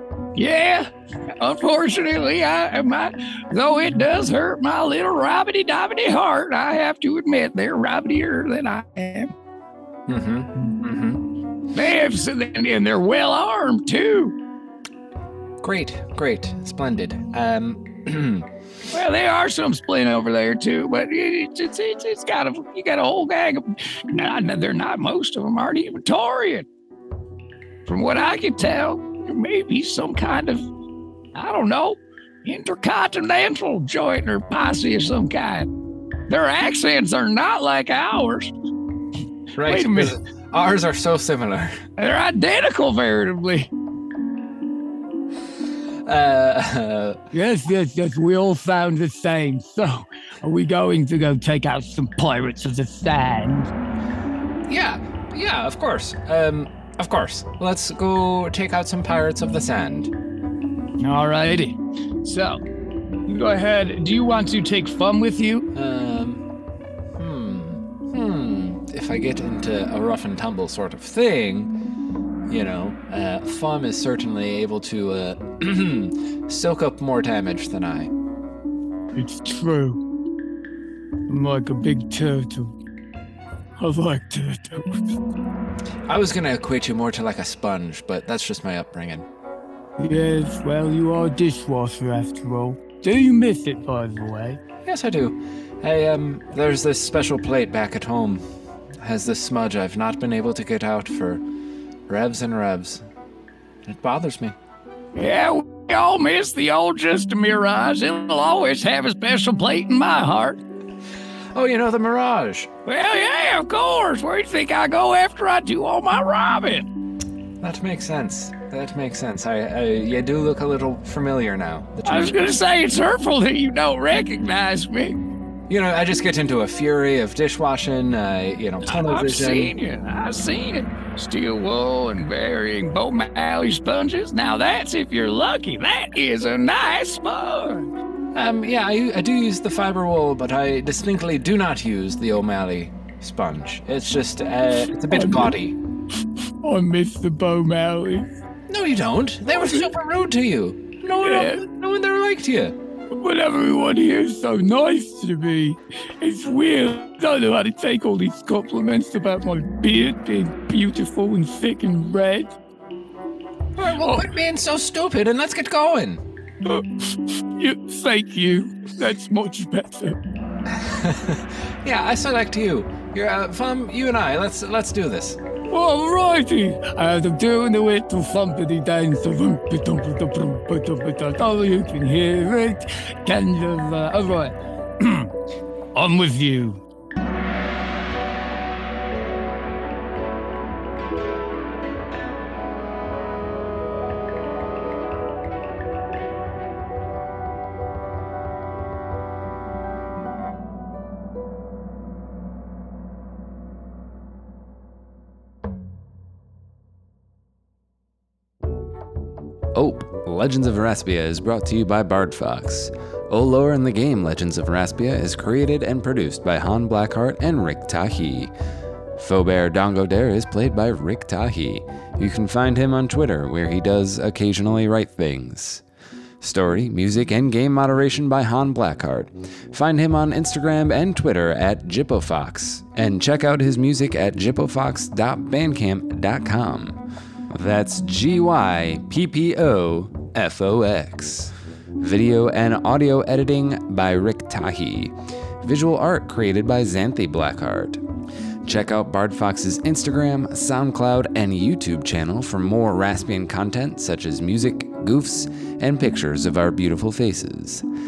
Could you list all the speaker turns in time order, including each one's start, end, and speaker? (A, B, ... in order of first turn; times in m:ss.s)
0:00.3-0:09.3 A
0:10.1-0:11.2 B
0:11.7-0:14.4 A
0:15.6-0:18.5 B
0:18.9-0:26.7 A
0:27.8-0:30.6 A
0:31.3-0:35.7 A
0:36.3-0:38.5 A
0:39.5-0:41.7 B
0:39.6-0:40.2 A
0:42.0-0:43.7 A
0:46.0-0:47.2 B
0:47.3-0:53.7 C
0:54.7-1:00.1 B
1:01.0-1:02.6 A
1:03.2-1:05.6 A
1:05.7-1:06.4 B
1:07.2-1:11.7 B
1:12.5-1:18.1 B
1:19.1-1:20.0 C
1:21.3-1:22.7 C
1:23.8-1:25.0 C
1:26.1-1:29.3 B
1:30.0-1:34.6 C
1:34.8-1:38.4 B
1:39.0-1:41.4 B
1:42.1-1:43.0 B
1:43.9-1:44.6 B
1:45.1-1:50.6 A
1:51.5-1:52.7 B
1:52.8-1:56.9 A
1:57.6-2:02.5 B
2:02.0-2:05.2 A
2:05.7-2:09.7 B
2:08.8-2:17.9 A
2:18.3-2:25.8 B
2:25.1-2:25.6 C
2:26.6-2:28.3 C
2:28.7-2:32.7 B
2:31.2-2:31.6 C
2:33.1-2:42.5 C
2:43.8-2:46.2 B
2:46.7-2:50.2 C
2:50.8-2:55.4 B
2:55.7-3:05.3 C
3:05.9-3:06.8 C
3:29.7-3:38.5 D
3:39.2-3:45.8 D
3:46.4-3:57.0 D
3:57.5-4:08.0 D
4:08.6-4:17.8 D